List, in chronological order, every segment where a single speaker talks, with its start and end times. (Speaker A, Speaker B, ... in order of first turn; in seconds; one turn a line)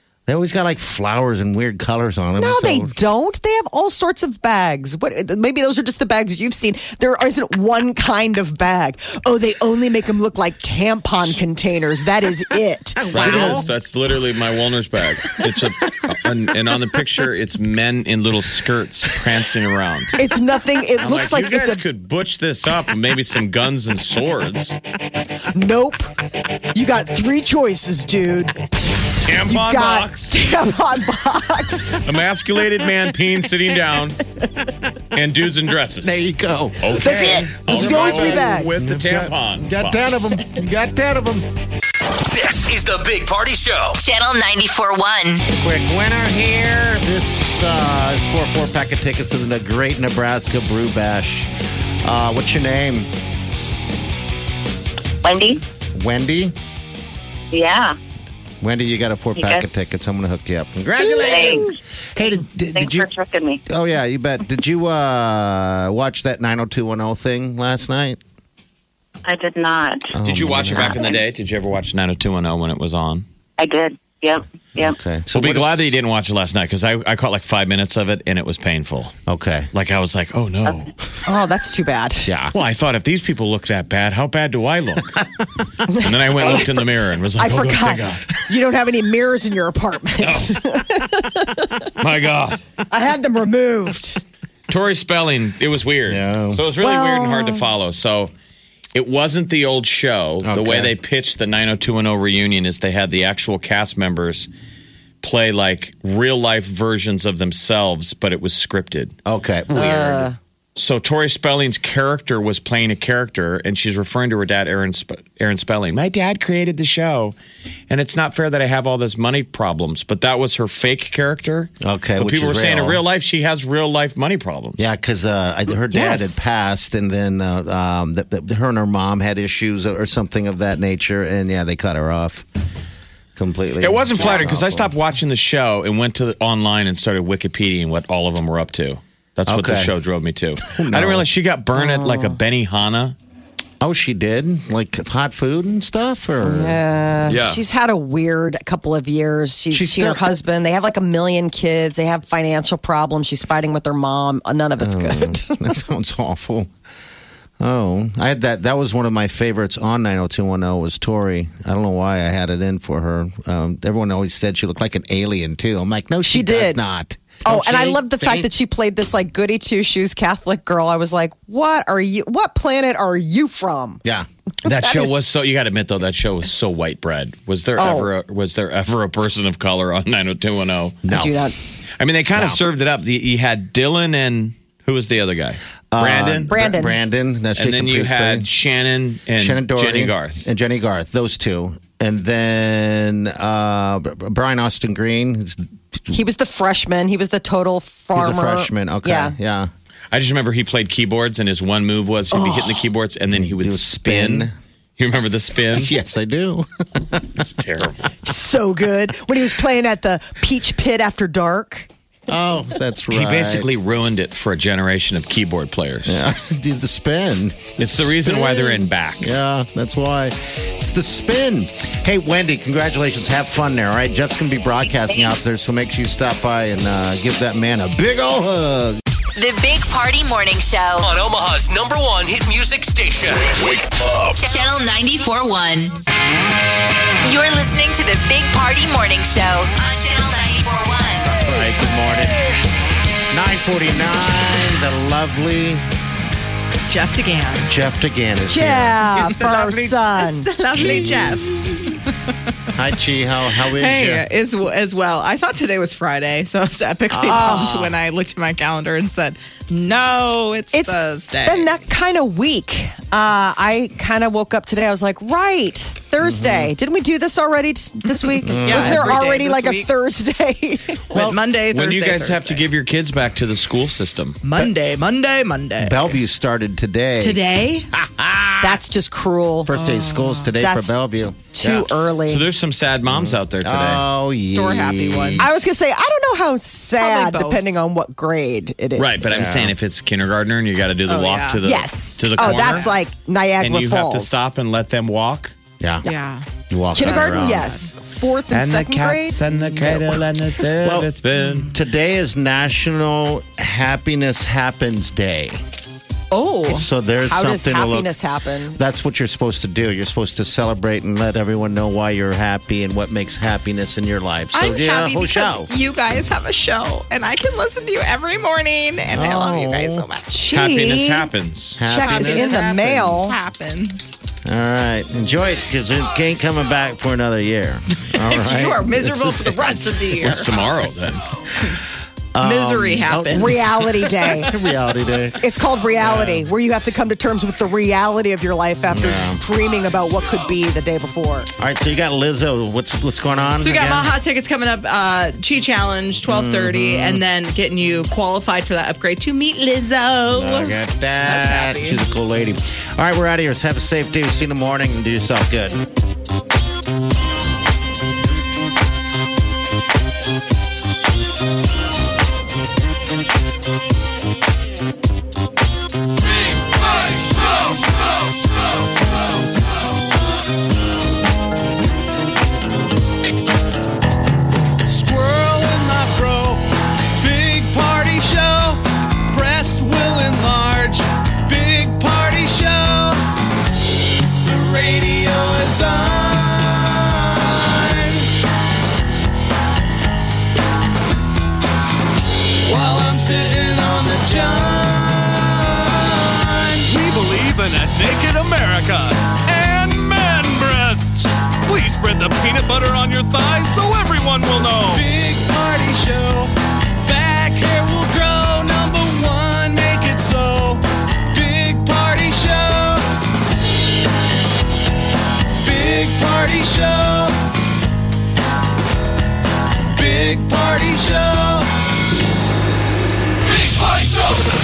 Speaker A: 0.3-2.9
Speaker B: 2.4-13.7
Speaker A: 12.9-13.7
Speaker C: 13.1-20.1
Speaker B: 20.1-21.8
Speaker C: 21.0-24.8
Speaker B: 25.5-26.1
Speaker B: 26.7-28.5
Speaker C: 29.2-30.4
Speaker B: 29.4-32.1
Speaker C: 32.0-34.2
Speaker C: 35.1-36.3
Speaker A: 36.0-41.5
Speaker C: 36.8-40.0
Speaker B: 37.0-38.8
Speaker D: 42.3-44.0
Speaker E: 44.0-45.4
Speaker A: 45.5-51.5
Speaker A: 52.0-53.1
Speaker F: 55.2-55.6
Speaker A: 55.9-56.5
Speaker F: 57.5-58.0
Speaker A: 58.6-63.1
Speaker F: 59.4-59.6
Speaker F: 61.0-61.7
Speaker F: 62.7-63.6
Speaker A: 63.7-68.2
Speaker F: 69.2-70.1
Speaker A: 70.1-71.1
Speaker C: 70.2-73.2
Speaker F: 70.7-71.2
Speaker F: 73.6-75.0
Speaker A: 74.8-75.9
Speaker C: 75.3-79.1
Speaker A: 79.3-79.7
Speaker C: 79.7-80.9
Speaker B: 81.2-82.3
Speaker A: 82.2-82.5
Speaker C: 82.5-85.2
Speaker B: 85.9-86.7
Speaker C: 85.9-88.3
Speaker B: 87.4-91.7
Speaker C: 90.2-90.5
Speaker C: 92.0-92.6
Speaker B: 92.9-94.2
Speaker C: 94.7-98.3
Speaker A: 96.1-96.6
Speaker B: 96.8-97.7
Speaker C: 98.9-104.5
Speaker A: 100.4-100.9
Speaker C: 105.2-109.2
Speaker A: 109.2-109.8
Speaker C: 109.7-117.3
Speaker B: 109.7-110.3
Speaker C: 117.9-124.8
Speaker A: 121.8-123.0
Speaker A: 124.8-132.4
Speaker B: 125.9-126.4
Speaker A: 133.3-134.9
Speaker C: 133.8-143.2
Speaker A: 139.5-139.9
Speaker A: 140.6-141.2
Speaker B: 141.7-142.4
Speaker A: 143.8-146.8
Speaker B: 146.4-155.7
Speaker C: 147.2-147.6
Speaker A: 149.7-150.3
Speaker A: 154.8-156.7
Speaker A: 157.6-168.5
Speaker B: 166.2-166.9
Speaker B: 167.4-174.0
Speaker B: 174.6-175.1
Speaker C: 174.6-181.0
Speaker B: 177.8-178.1
Speaker A: 181.0-181.3
Speaker B: 181.1-181.6
Speaker C: 182.0-186.5
Speaker A: 182.3-182.6
Speaker A: 185.9-188.5
Speaker B: 186.5-187.0
Speaker C: 187.5-190.4
Speaker A: 189.3-196.2
Speaker B: 196.1-199.3
Speaker A: 198.1-199.7
Speaker C: 200.1-205.9
Speaker B: 202.3-202.9
Speaker A: 203.3-204.5
Speaker A: 205.7-207.4
Speaker C: 207.4-208.1
Speaker B: 208.2-211.9
Speaker A: 212.3-213.7
Speaker C: 213.1-216.2
Speaker A: 216.1-229.0
Speaker C: 217.8-219.3
Speaker E: 229.3-231.1
Speaker D: 231.0-234.6
Speaker E: 234.3-235.9
Speaker E: 237.2-241.3
Speaker A: 241.3-242.5
Speaker A: 243.3-245.8
Speaker G: 246.9-247.7
Speaker A: 247.7-249.0
Speaker B: 248.5-250.5
Speaker G: 249.0-252.1
Speaker A: 250.8-251.2
Speaker A: 252.7-254.2
Speaker G: 253.7-261.7
Speaker A: 257.1-257.9
Speaker B: 257.4-257.7
Speaker B: 260.7-271.3
Speaker A: 266.2-266.7
Speaker A: 268.4-269.1
Speaker G: 268.6-269.9
Speaker G: 271.1-272.7
Speaker C: 271.2-274.4
Speaker G: 274.4-276.2
Speaker A: 275.8-278.8
Speaker G: 277.2-277.9
Speaker B: 278.6-279.7
Speaker A: 279.6-281.9
Speaker G: 279.8-280.5
Speaker B: 280.6-280.9
Speaker B: 281.5-282.4
Speaker C: 282.2-284.0
Speaker A: 283.1-285.6
Speaker G: 284.5-285.7
Speaker B: 285.4-289.4
Speaker G: 287.0-287.8
Speaker C: 288.9-292.9
Speaker A: 289.2-289.7
Speaker G: 291.1-291.6
Speaker B: 291.6-294.4
Speaker G: 292.4-292.8
Speaker C: 293.6-295.5
Speaker A: 295.8-296.0
Speaker G: 296.0-296.5
Speaker A: 296.7-297.7
Speaker B: 296.9-300.1
Speaker G: 297.0-297.8
Speaker C: 298.5-301.7
Speaker A: 300.8-301.1
Speaker A: 301.7-305.6
Speaker B: 306.3-308.8
Speaker A: 306.6-308.1
Speaker A: 308.7-315.7
Speaker G: 314.5-320.4
Speaker A: 319.1-320.1
Speaker B: 320.3-321.3
Speaker C: 320.5-321.8
Speaker A: 321.8-323.3
Speaker B: 321.9-323.4
Speaker G: 321.9-324.2
Speaker A: 324.4-330.5
Speaker G: 328.2-330.5
Speaker C: 330.2-331.2
Speaker A: 332.3-336.5
Speaker G: 332.4-333.6
Speaker B: 333.3-334.6
Speaker B: 335.4-341.5
Speaker A: 338.9-339.4
Speaker A: 341.6-344.1
Speaker G: 343.6-352.1
Speaker A: 346.3-347.2
Speaker A: 350.3-355.8
Speaker H: 374.9-376.6
Speaker H: 377.2-378.8
Speaker H: 379.3-383.1
Speaker H: 384.4-388.2
Speaker H: 392.6-395.9
Speaker H: 396.7-406.5
Speaker H: 407.0-413.0
Speaker H: 415.6-417.3
Speaker H: 419.9-421.6